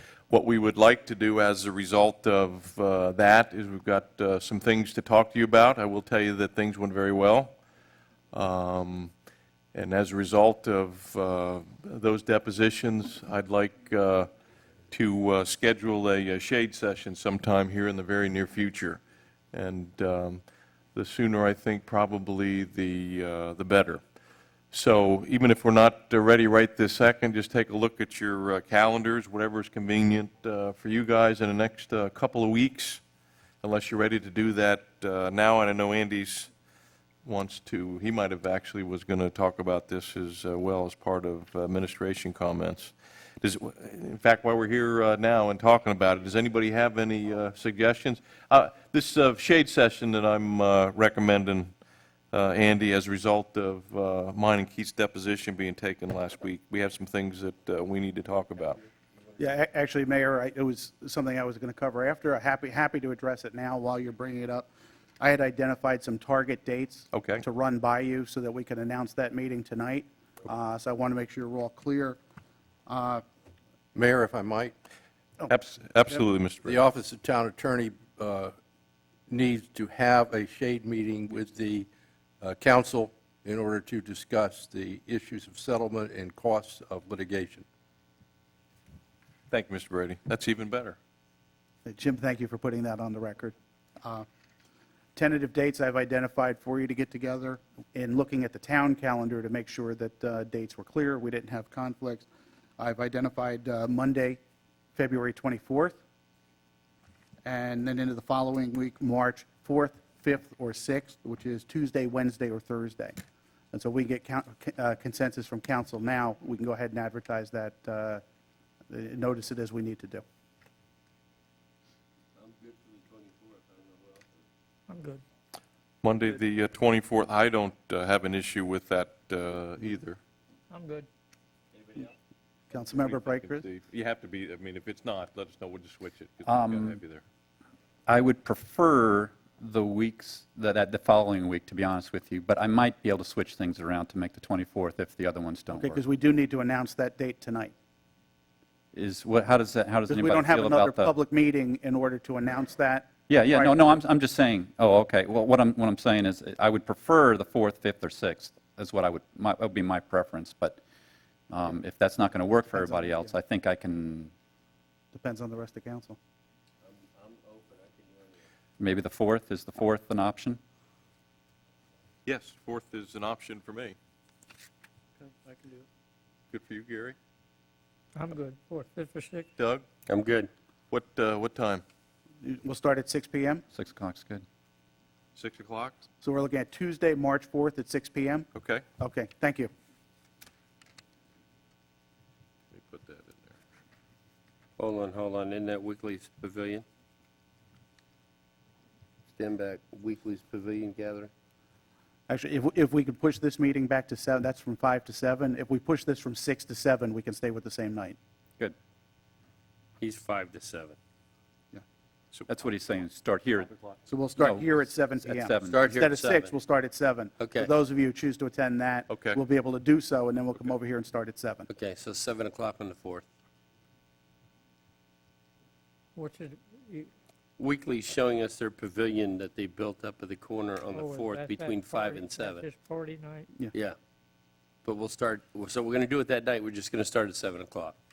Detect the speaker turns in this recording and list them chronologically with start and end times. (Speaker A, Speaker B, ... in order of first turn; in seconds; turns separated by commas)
Speaker A: 0.3-7.6, Speaker A: 8.3-9.1, Speaker A: 9.7-14.3, Speaker A: 14.9-19.0, Speaker A: 19.5-24.0, Speaker A: 24.7-33.0, Speaker A: 33.6-36.5, Speaker A: 37.2-51.7, Speaker A: 52.3-58.8, Speaker B: 59.4-64.7, Speaker B: 65.2-72.2, Speaker A: 67.1-67.4, Speaker B: 72.9-73.2, Speaker C: 73.9-74.7, Speaker A: 75.5-76.8, Speaker C: 76.7-78.5, Speaker C: 79.3-81.9, Speaker C: 82.4-87.7, Speaker A: 89.5-91.0, Speaker B: 91.8-94.3, Speaker B: 95.2-102.3, Speaker B: 102.8-104.4, Speaker B: 105.0-106.0, Speaker B: 107.4-113.2, Speaker B: 113.7-118.2, Speaker B: 118.9-120.2, Speaker D: 122.3-124.4, Speaker E: 124.9-125.2, Speaker A: 126.0-130.2, Speaker E: 130.7-131.1, Speaker D: 131.8-132.1, Speaker B: 132.7-133.6, Speaker A: 132.9-137.2, Speaker F: 136.5-137.0, Speaker F: 138.1-146.0, Speaker B: 145.7-147.7, Speaker F: 148.9-151.1, Speaker B: 150.1-154.0, Speaker F: 153.3-160.8, Speaker F: 161.5-164.3, Speaker B: 162.7-163.3, Speaker B: 165.1-166.2, Speaker D: 166.8-168.4, Speaker F: 168.8-170.6, Speaker A: 172.2-174.0, Speaker A: 176.5-177.2, Speaker E: 178.2-179.5, Speaker A: 179.6-179.8, Speaker D: 180.1-180.5, Speaker A: 180.9-181.8, Speaker B: 182.4-183.6, Speaker F: 183.7-184.4, Speaker A: 185.4-186.0, Speaker B: 186.2-188.5, Speaker A: 188.5-188.8, Speaker B: 189.0-189.7, Speaker A: 192.7-193.6, Speaker D: 194.8-196.8, Speaker D: 199.3-201.3, Speaker B: 202.3-208.2, Speaker D: 210.0-211.0, Speaker F: 212.5-213.8, Speaker B: 214.1-221.7, Speaker F: 214.3-215.8, Speaker D: 215.7-216.6, Speaker D: 217.4-217.7, Speaker A: 219.1-219.4, Speaker D: 221.7-223.2, Speaker E: 226.2-227.1, Speaker D: 227.6-232.7, Speaker E: 230.9-233.5, Speaker D: 234.8-237.9